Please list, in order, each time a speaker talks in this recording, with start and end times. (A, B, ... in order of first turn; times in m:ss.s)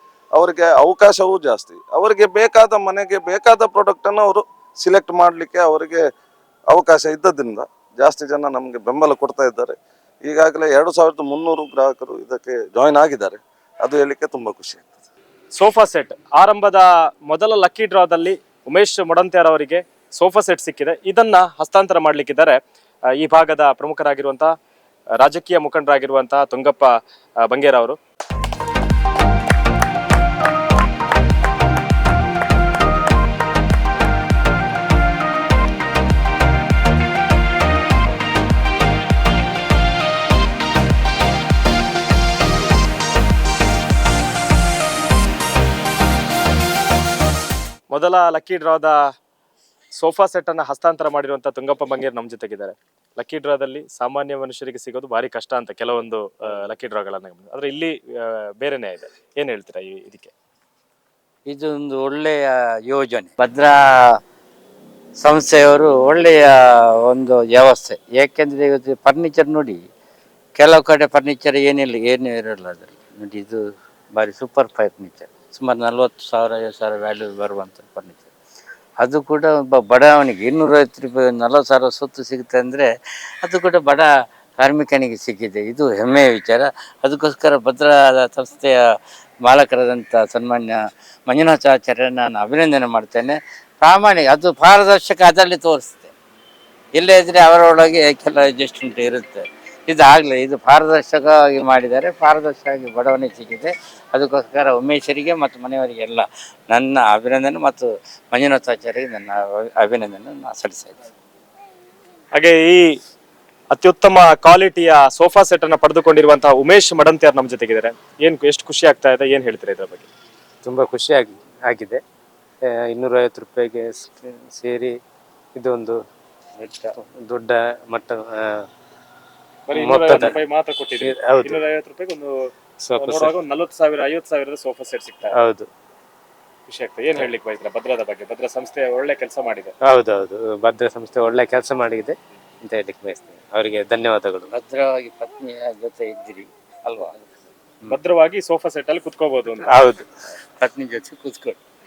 0:00.3-0:06.0 A
0:06.7-0:15.0 A
0:15.6-0:22.6 B
0:23.2-0:24.5 B
0:25.2-0:26.9 B
0:27.4-0:28.0 B
0:47.9-0:49.0 B
0:50.0-1:00.3 B
1:01.5-1:04.2 C
1:05.2-1:09.9 C
1:10.6-1:18.3 C
1:19.0-1:22.9 C
1:23.4-1:36.1 C
1:36.9-1:51.1 C
1:52.3-1:53.0 B
1:53.7-2:00.1 B
2:00.6-2:02.0 D
2:02.6-2:05.0 D
2:05.6-2:06.0 D
2:06.6-2:06.8 C
2:07.0-2:08.6 D
2:09.7-2:12.3 B
2:09.7-2:10.4 D
2:11.0-2:11.6 D
2:12.8-2:13.3 D
2:13.0-2:15.4 B
2:15.4-2:15.7 D
2:16.7-2:19.7 B
2:19.8-2:24.5 D
2:24.5-2:27.2 C
2:27.9-2:29.8 B
2:29.7-2:30.0 D
2:30.6-2:31.6 C